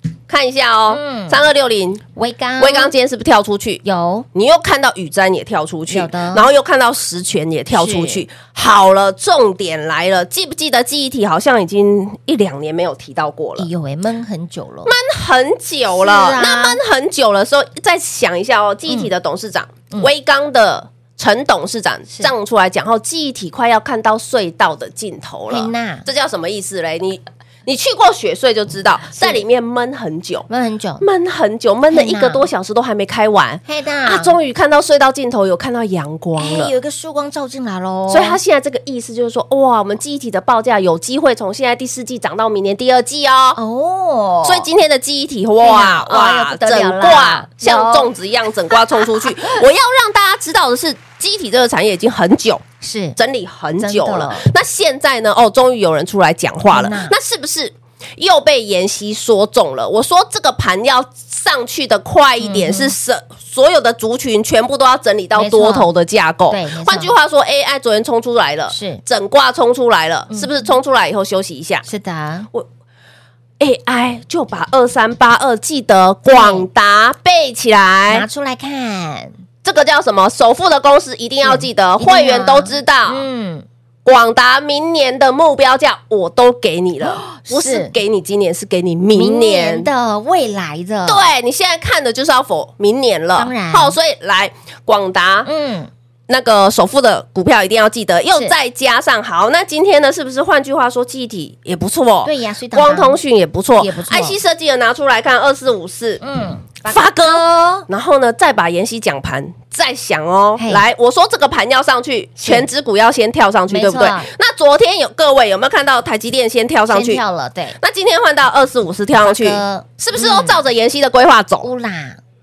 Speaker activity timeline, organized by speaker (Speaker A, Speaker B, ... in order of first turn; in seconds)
Speaker A: 0.3-2.0, 2.6-3.8, 4.3-13.7, 14.9-30.5, 31.0-36.7, 38.1-43.6, 44.5-52.6, 53.2-71.8, 73.6-78.3, 79.6-83.3, 84.0-89.9, 91.1-95.5, 96.3-106.2, 106.9-117.2, 117.8-121.7
Speaker B: 0.9-1.4, 2.2-2.9, 3.8-4.3, 5.9-6.5, 7.7-8.2, 13.6-14.9, 15.9-16.8, 25.5-26.1, 29.1-29.4, 30.5-31.1, 31.9-32.5, 33.7-34.4, 36.4-38.4, 43.6-44.7, 45.6-48.1, 48.7-49.3, 52.8-53.2, 53.8-54.5, 56.7-57.1, 62.4-62.9, 65.4-65.9, 66.5-67.1, 68.7-69.0, 70.3-70.7, 71.9-72.5, 76.3-76.7, 78.1-79.3, 81.4-83.7, 87.0-87.9, 89.1-91.2, 93.4-94.0, 95.5-95.9, 102.2-103.2, 103.8-104.4, 106.2-107.9, 110.6-110.8, 112.4-112.7, 113.7-114.3, 116.9-117.8, 119.2-120.6, 121.6-122.2